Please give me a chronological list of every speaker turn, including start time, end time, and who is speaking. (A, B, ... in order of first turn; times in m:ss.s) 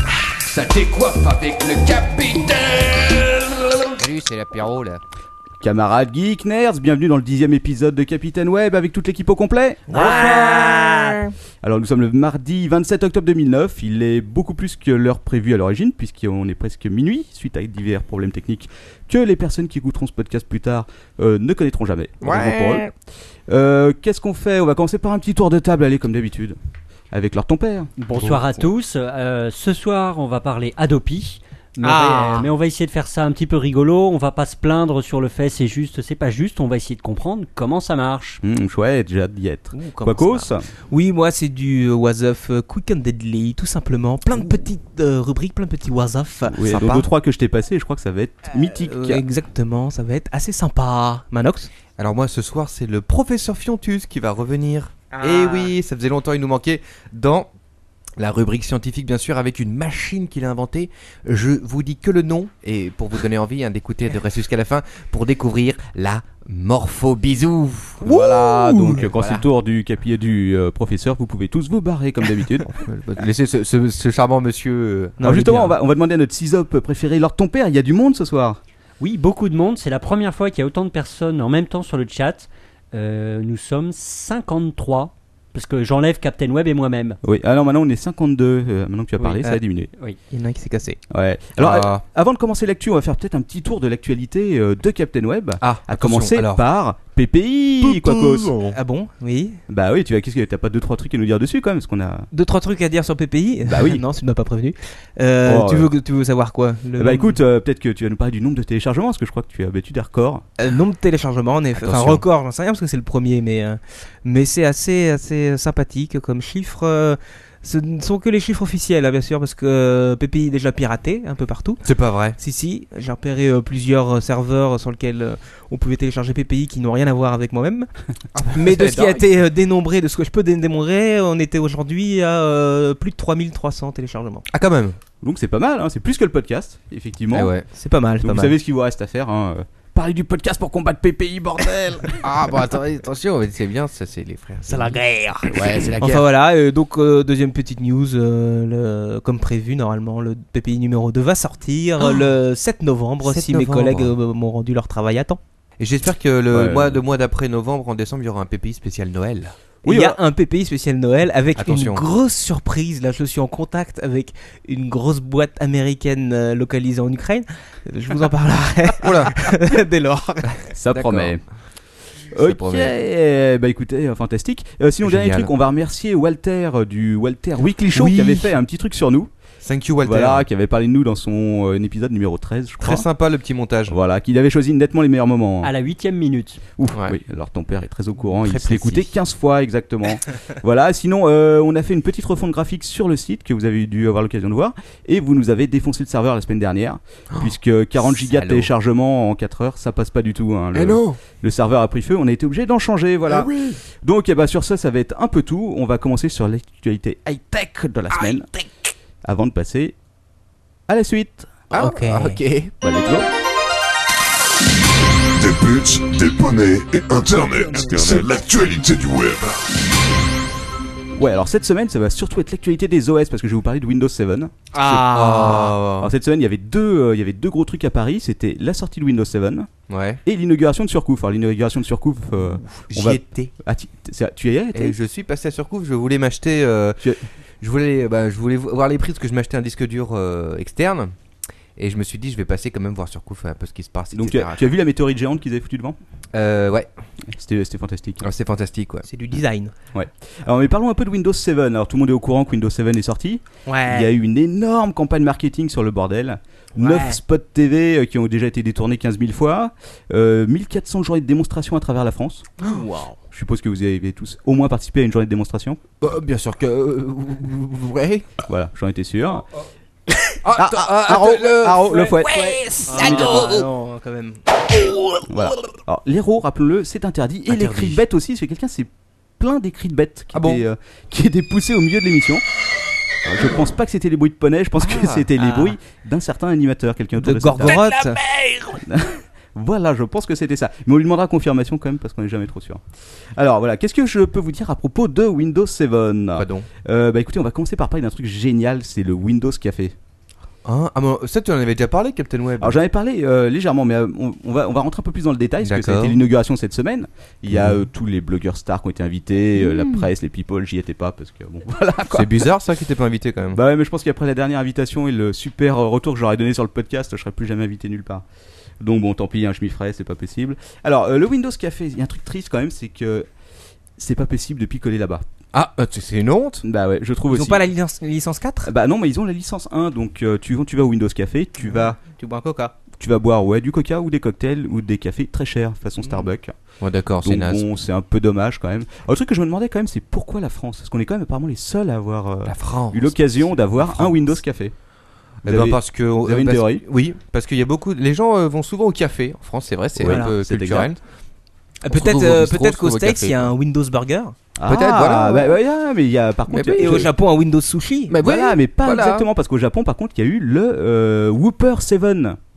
0:00.4-0:03.9 A
0:04.0-0:05.0 B
0:05.6-0:11.0 A
0:09.9-0:11.3 C
0:10.3-0:10.8 B
0:11.6-0:22.9 A
0:22.2-0:22.9 B
0:23.5-0:26.6 A
0:27.1-0:27.9 A
0:28.0-0:38.4 D
0:28.1-0:28.4 B
0:31.8-0:32.5 C
0:38.4-0:40.6 A
0:39.7-0:46.9 C
0:46.6-0:49.2 A
0:46.6-0:47.1 B
0:48.6-0:51.7 C
0:52.0-0:57.5 B
0:55.1-0:55.7 C
0:58.2-1:08.2 B
1:08.0-1:12.8 A
1:08.1-1:09.0 C
1:08.9-1:09.4 B
1:12.7-1:15.6 B
1:15.2-1:15.7 C
1:15.2-1:18.6 A
1:19.0-1:27.2 D
1:27.2-1:29.9 A
1:30.2-1:31.0 C
1:31.1-1:38.6 A
1:31.6-1:32.0 B
1:35.6-1:36.6 B
1:37.8-1:38.8 B
1:38.6-1:39.6 C
1:39.7-1:42.3 A
1:42.3-1:47.4 C
1:43.6-1:44.0 A
1:45.4-1:45.9 A
1:47.0-1:50.4 A
1:50.6-2:01.8 C
1:51.7-1:52.2 B
2:01.8-2:02.4 B
2:02.4-2:07.9 C
2:08.3-2:09.3 B
2:08.5-2:14.4 C
2:14.5-2:15.0 B
2:15.2-2:17.5 A
2:17.3-2:17.7 B
2:17.7-2:18.5 C
2:18.2-2:22.3 A
2:22.2-2:25.0 B
2:24.7-2:35.4 C
2:25.5-2:26.1 A
2:25.5-2:26.2 B
2:33.2-2:34.1 B
2:35.8-2:39.5 B
2:36.5-2:37.0 A
2:39.8-2:40.2 A
2:39.8-2:50.7 C
2:41.6-2:42.0 B
2:49.0-2:49.4 B
2:50.8-2:51.7 A
2:50.9-2:51.4 B
2:52.3-2:59.3 A
2:52.4-2:52.9 B
2:55.0-2:55.5 B
2:57.9-2:58.6 B
2:59.6-3:00.4 B
3:00.0-3:03.1 A
3:02.8-3:04.0 B
3:03.9-3:05.7 A
3:05.6-3:06.6 D
3:06.8-3:28.5 A
3:06.9-3:07.2 B
3:08.4-3:09.2 B
3:18.2-3:18.7 B
3:20.7-3:21.2 B
3:23.3-3:23.8 B
3:29.2-3:29.9 A
3:30.9-3:31.6 A
3:31.7-3:32.7 B
3:31.7-3:32.4 C
3:32.8-3:33.3 A
3:35.4-3:39.6 E
3:41.1-3:44.5 A
3:44.7-3:45.7 C
3:44.8-3:46.1 B
3:46.0-3:49.7 A
3:49.9-3:50.2 B
3:50.2-3:55.0 A
3:52.9-3:53.5 B
3:54.7-3:57.0 B
3:57.6-4:01.1 B
4:01.8-4:04.6 B
4:04.1-4:06.0 A
4:06.3-4:06.9 B
4:07.3-4:08.2 A
4:08.2-4:09.0 B
4:09.0-4:09.7 C
4:09.9-4:22.6 A
4:13.6-4:14.1 C
4:16.8-4:17.2 C
4:22.6-4:23.2 C
4:23.3-4:25.8 A
4:26.0-4:28.3 B
4:28.5-4:29.4 A
4:30.1-4:33.7 B
4:30.5-4:33.6 A
4:32.8-4:34.4 C
4:35.3-4:42.4 A
4:37.5-4:38.0 B
4:40.3-4:40.6 B
4:43.2-4:48.0 A
4:44.8-4:45.3 B
4:45.4-4:45.7 C
4:47.2-4:48.5 C
4:48.8-4:52.8 A
4:53.4-4:59.9 A
4:56.4-4:56.7 B
5:00.6-5:02.8 B
5:02.6-5:12.5 A
5:05.6-5:06.2 B
5:07.5-5:07.8 B
5:12.1-5:13.6 B
5:13.5-5:18.2 A
5:18.8-5:23.3 A
5:24.0-5:25.2 A
5:25.5-5:26.6 B
5:26.6-5:27.7 A
5:27.3-5:28.7 C
5:28.6-5:32.0 A
5:31.6-5:32.7 C
5:33.0-5:36.5 A
5:36.8-5:37.6 B
5:37.2-5:44.7 A
5:42.4-5:44.4 B
5:45.4-5:46.8 A
5:45.4-5:51.0 B
5:50.0-5:50.9 A
5:50.0-5:50.3 C
5:51.8-5:54.3 C
5:51.9-5:53.5 B
5:54.5-5:57.1 A
5:54.6-5:55.6 B
5:56.5-5:57.1 B
5:56.8-5:58.1 C
5:58.1-5:59.3 B
5:58.2-6:02.4 A